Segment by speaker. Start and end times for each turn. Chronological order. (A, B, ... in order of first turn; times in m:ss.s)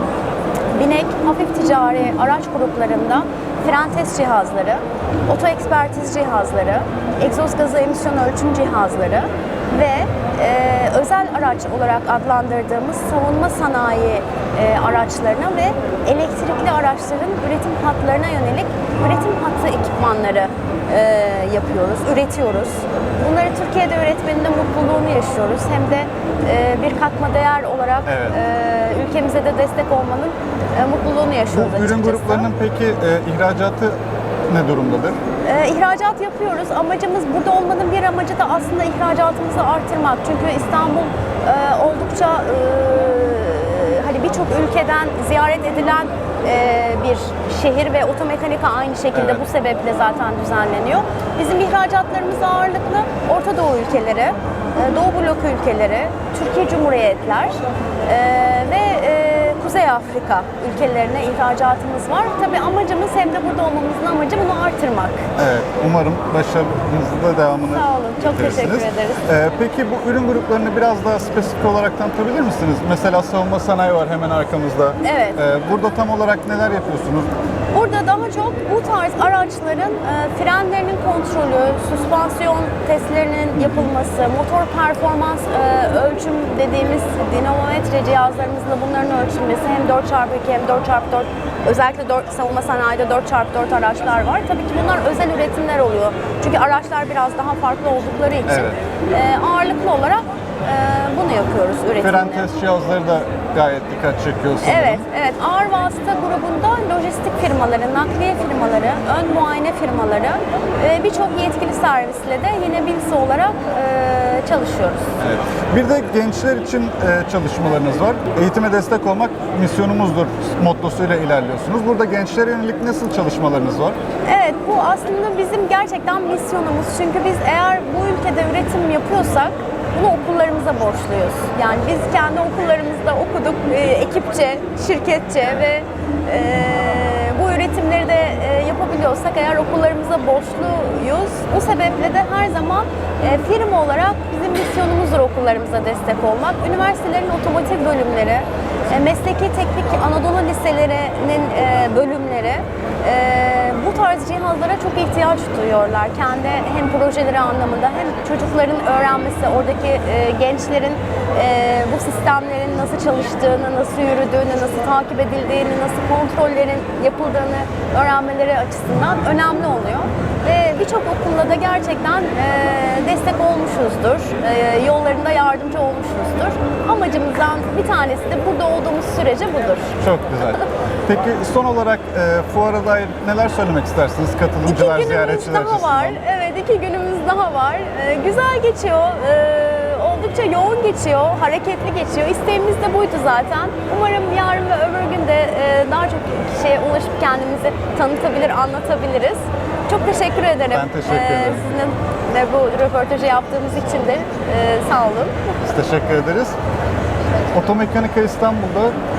0:00.7-0:32.5 A
0:28.1-0:28.4 B
0:31.5-0:35.2 B
0:35.4-1:05.3 A
0:49.1-0:49.4 B
1:05.4-1:17.3 B
1:07.6-1:09.2 A
1:15.0-1:15.4 A
1:17.7-1:42.5 A
1:23.6-1:23.9 B
1:38.5-1:38.8 B
1:42.0-1:45.0 B
1:44.6-1:55.1 A
1:55.2-2:04.0 B
2:04.3-3:00.0 A
3:00.0-3:06.2 B
3:04.6-3:25.6 A
3:20.7-3:21.7 B
3:25.6-3:26.6 B
3:27.5-3:29.0 B